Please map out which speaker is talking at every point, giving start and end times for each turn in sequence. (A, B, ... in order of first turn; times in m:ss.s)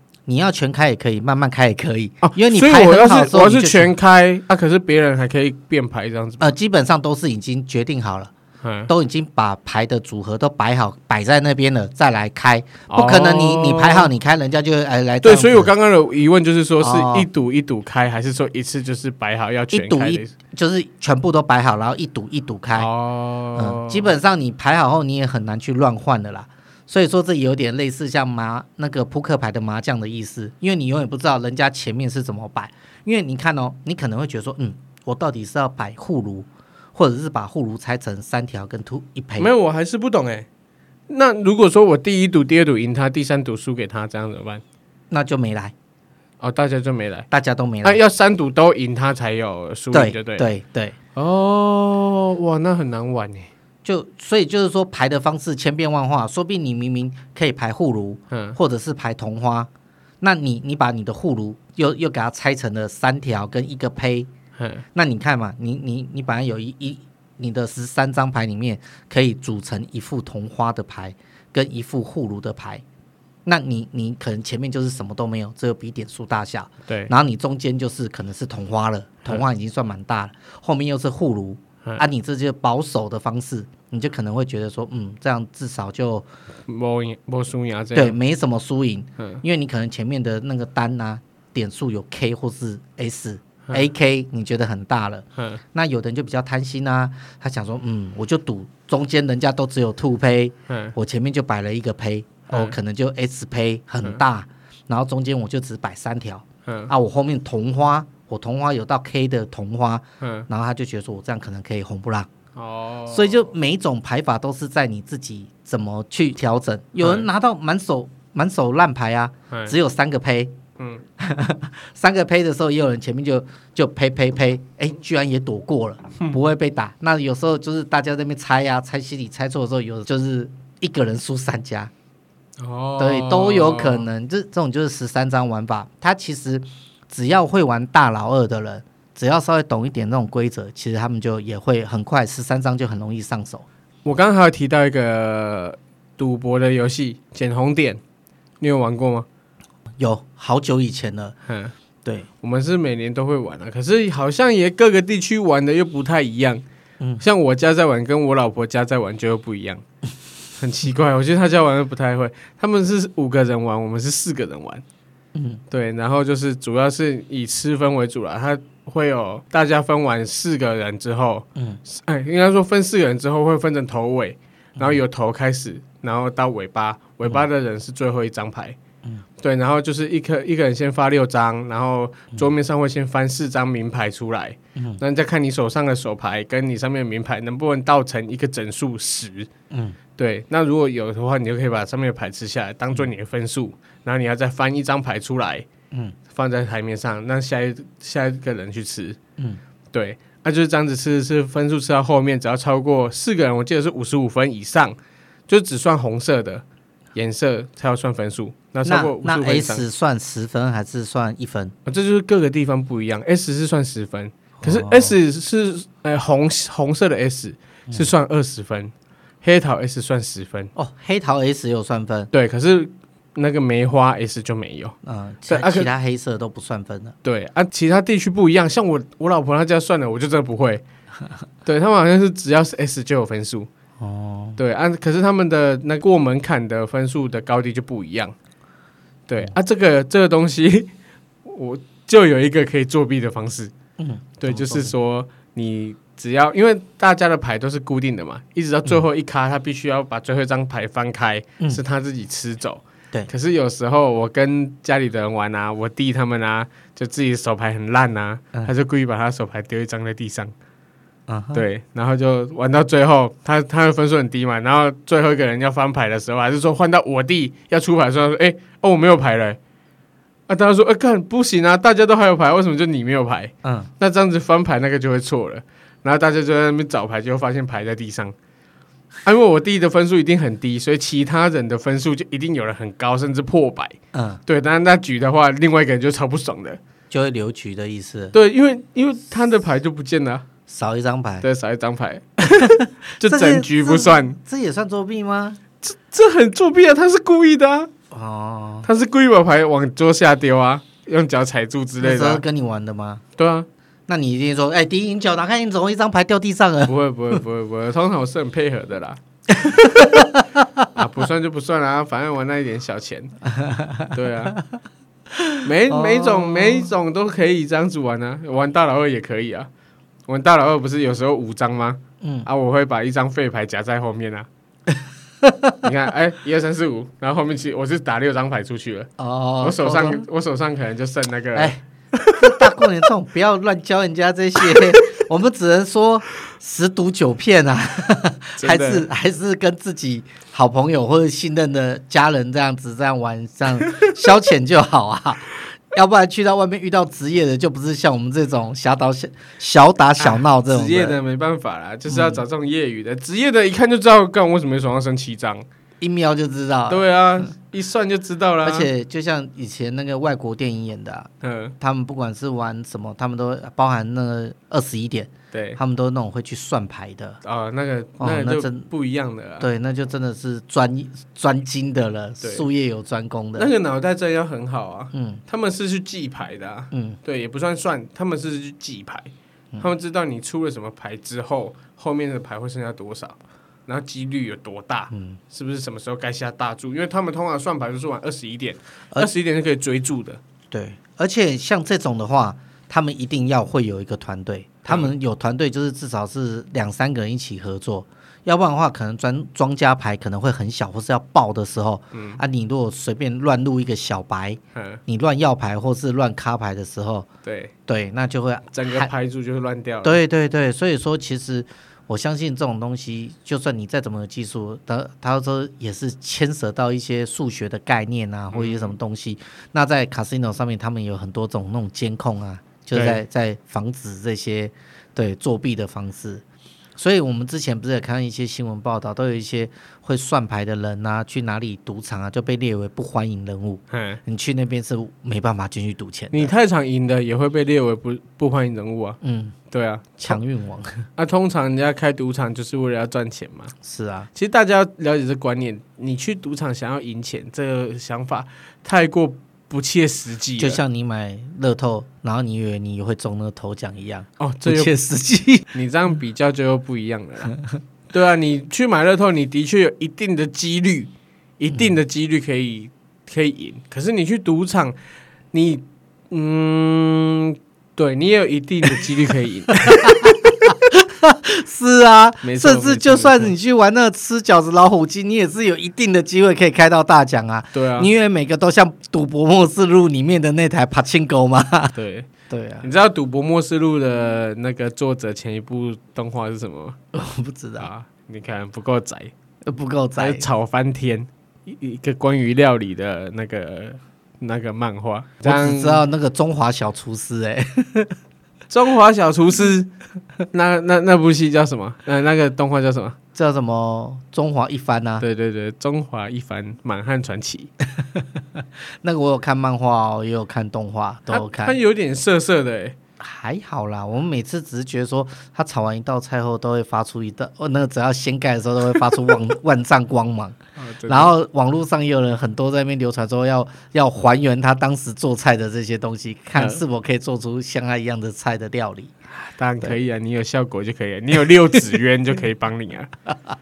0:00.3-0:03.9 A
0:02.2-0:06.5 B
0:06.4-0:08.3 A
0:08.6-0:08.9 B
0:08.9-0:15.7 A
0:12.9-0:14.1 B
0:15.2-0:20.3 B
0:16.8-0:17.3 A
0:19.7-0:22.9 A
0:22.8-0:24.1 B
0:23.6-0:39.5 A
0:39.4-0:40.5 B
0:41.1-0:44.6 B
0:45.1-0:45.7 A
0:46.4-0:47.3 B
0:47.3-0:48.0 A
0:47.8-0:50.5 B
0:49.9-0:51.0 A
0:51.1-0:53.5 B
0:53.8-0:59.7 A
0:58.3-0:58.6 B
1:00.2-1:04.3 A
1:04.6-1:04.8 B
1:04.9-1:12.8 A
1:13.4-1:26.2 A
1:26.7-1:28.2 B
1:27.9-1:52.3 A
1:40.7-1:40.9 B
1:42.5-1:42.8 B
1:46.6-1:46.9 B
1:50.2-1:50.5 B
1:52.5-1:53.5 B
1:53.1-2:00.6 A
1:57.0-1:57.2 B
2:01.2-2:11.9 A
2:12.6-2:14.1 B
2:13.0-2:23.6 A
2:24.0-2:28.0 B
2:28.6-2:29.3 B
2:30.0-2:31.3 A
2:31.5-2:31.7 B
2:32.4-2:36.6 B
2:37.2-2:39.8 B
2:40.6-2:44.8 B
2:45.3-2:45.6 A
2:45.7-2:58.8 B
2:59.4-3:09.5 B
3:04.8-3:05.0 A
3:09.7-3:10.0 A
3:10.2-3:15.6 B
3:16.3-3:19.2 B
3:19.9-3:25.0 B
3:25.5-3:26.6 B
3:27.1-3:29.8 B
3:28.8-3:31.7 A
3:31.8-3:40.7 B
3:34.6-3:35.1 A
3:40.7-3:42.3 A
3:42.3-3:45.0 B
3:45.0-3:47.1 A
3:45.5-3:45.9 B
3:47.2-3:50.8 B
3:51.6-3:53.7 B
3:54.0-3:54.6 A
3:54.6-3:58.3 B
3:59.3-4:00.9 B
4:01.4-4:03.7 B
4:04.0-4:04.9 A
4:04.4-4:20.5 B
4:21.3-4:21.6 A
4:21.5-4:29.6 B
4:30.5-4:38.3 B
4:33.6-4:33.9 A
4:39.2-4:46.8 B
4:44.1-4:44.4 A
4:47.1-4:48.3 A
4:48.3-4:50.4 B
4:50.7-4:51.4 A
4:51.4-4:54.4 B
4:52.5-4:55.6 A
4:55.8-4:57.9 B
4:58.1-4:58.9 A
4:58.8-5:02.4 B
5:02.0-5:03.2 A
5:03.4-5:03.7 B
5:04.1-5:07.4 A
5:06.8-5:10.2 B
5:09.5-5:10.9 A
5:10.9-5:13.3 B
5:13.4-5:14.6 A
5:14.1-5:14.6 B
5:15.3-5:16.9 A
5:15.6-5:19.7 B
5:20.3-5:24.5 B
5:22.2-5:22.5 A
5:25.4-5:25.8 A
5:25.8-5:32.6 B
5:29.2-5:30.2 A
5:31.5-5:31.8 A
5:32.3-5:51.2 A
5:38.6-5:39.0 B
5:43.8-5:44.1 B
5:50.2-5:55.6 B
5:52.1-5:52.4 A
5:56.0-5:57.0 A
5:56.9-5:58.9 B
5:58.6-6:07.4 A
6:01.4-6:01.7 B
6:05.5-6:05.8 B
6:07.4-6:09.7 B
6:08.2-6:08.9 A
6:09.6-6:13.7 A
6:12.4-6:12.7 B
6:13.6-6:30.4 B
6:15.1-6:15.4 A
6:16.9-6:17.2 A
6:25.1-6:25.4 A
6:30.7-6:47.3 A
6:42.1-6:42.4 B
6:44.7-6:45.0 B
6:47.4-6:47.7 B
6:47.9-6:49.1 A
6:48.7-6:50.2 B
6:50.0-7:06.4 A
6:58.5-6:58.9 B
7:02.9-7:03.2 B
7:07.0-7:16.5 A
7:13.9-7:14.2 B
7:16.3-7:19.2 B
7:19.2-7:19.6 A
7:19.7-7:20.4 B
7:20.2-7:21.0 A
7:21.2-7:23.7 B
7:23.8-7:24.3 A
7:24.3-7:30.8 B
7:30.6-7:35.6 A
7:34.4-7:34.9 B
7:35.7-7:37.6 B
7:38.1-7:45.0 B
7:45.5-7:50.2 B
7:49.7-8:02.0 A
7:52.4-7:53.5 B
7:57.7-7:58.1 B
8:01.9-8:02.3 B
8:02.5-8:02.9 A
8:02.8-8:07.0 B
8:07.1-8:07.9 A
8:07.8-8:09.3 B
8:09.6-8:10.4 A
8:10.2-8:16.0 B
8:15.4-8:18.1 A
8:18.7-8:19.9 B
8:20.5-8:23.2 B
8:23.3-8:25.2 A
8:25.2-8:27.7 B
8:28.0-8:31.8 A
8:31.3-8:33.0 B
8:33.2-8:49.1 A
8:40.8-8:41.3 B
8:46.6-8:46.8 B
8:49.3-8:53.1 B